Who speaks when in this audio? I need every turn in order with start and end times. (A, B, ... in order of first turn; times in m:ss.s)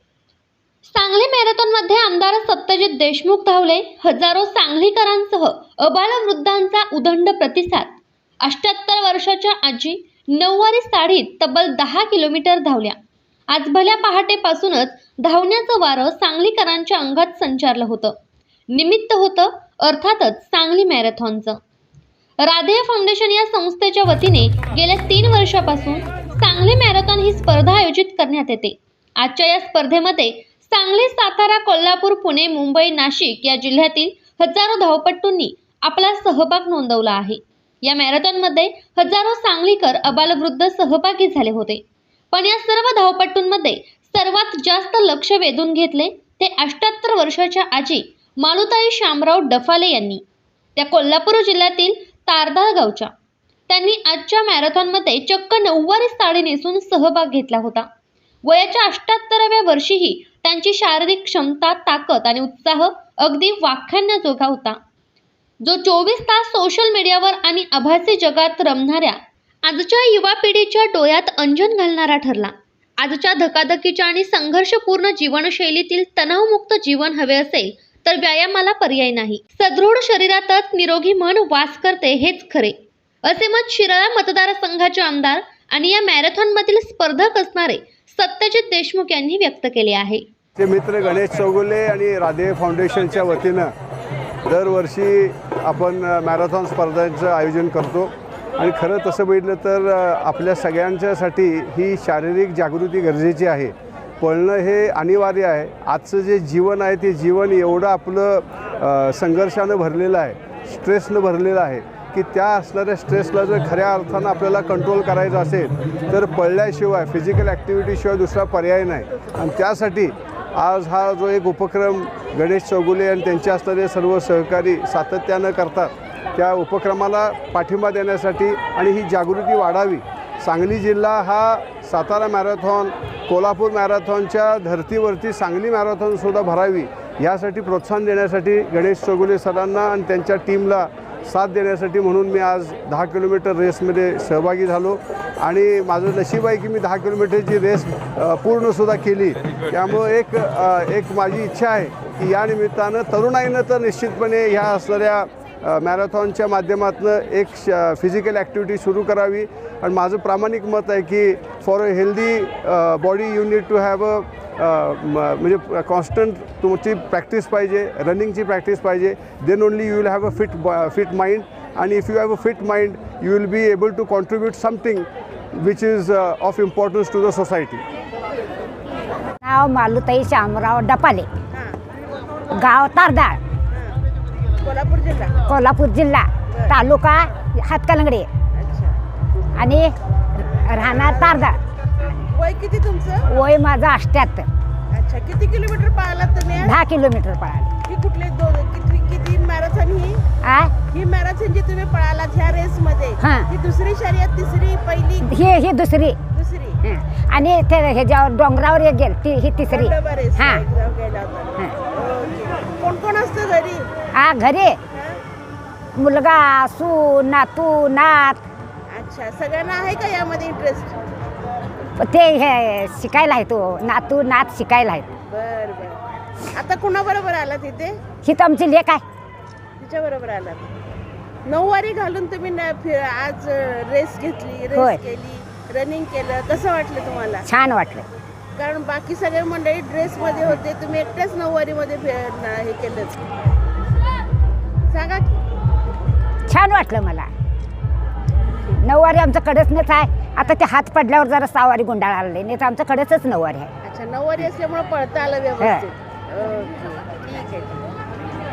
0:00.8-0:07.9 A
0:08.4-0:13.0 A
0:13.5-0:18.1 A
0:18.7-0:21.6 A
0:22.4-0:41.8 A
0:42.3-0:50.2 A
0:50.8-0:53.1 A
0:53.7-0:57.8 A
0:58.4-1:04.8 A
1:05.6-1:30.2 A
1:30.6-1:33.7 B
1:34.5-2:57.8 B
2:59.4-3:01.3 C
3:01.5-3:01.8 D
3:02.5-3:03.4 C
3:03.7-3:04.0 D
3:04.6-3:05.3 D
3:05.4-3:08.3 C
3:06.5-3:06.8 D
3:08.5-3:09.0 D
3:09.6-3:11.6 C
3:10.4-3:11.5 D
3:12.3-3:13.3 D
3:13.3-3:14.5 C
3:14.9-3:16.7 D
3:16.6-3:17.7 C
3:17.8-3:20.2 D
3:20.4-3:20.7 C
3:20.9-3:25.3 D
3:23.2-3:23.5 C
3:25.2-3:26.2 C
3:26.3-3:26.8 D
3:26.8-3:30.6 C
3:29.7-3:33.9 D
3:34.2-3:34.8 C
3:34.9-3:35.2 D
3:36.0-3:38.4 C
3:38.9-3:41.0 D
3:42.0-3:45.1 C
3:45.3-3:46.0 D
3:46.5-3:48.0 D
3:48.2-3:49.0 C
3:49.8-3:50.7 D
3:51.4-3:57.4 D
3:57.4-3:58.1 C
3:58.6-4:03.2 D
4:04.9-4:05.4 D
4:06.5-4:07.3 C
4:08.8-4:13.7 C
4:13.8-4:17.8 D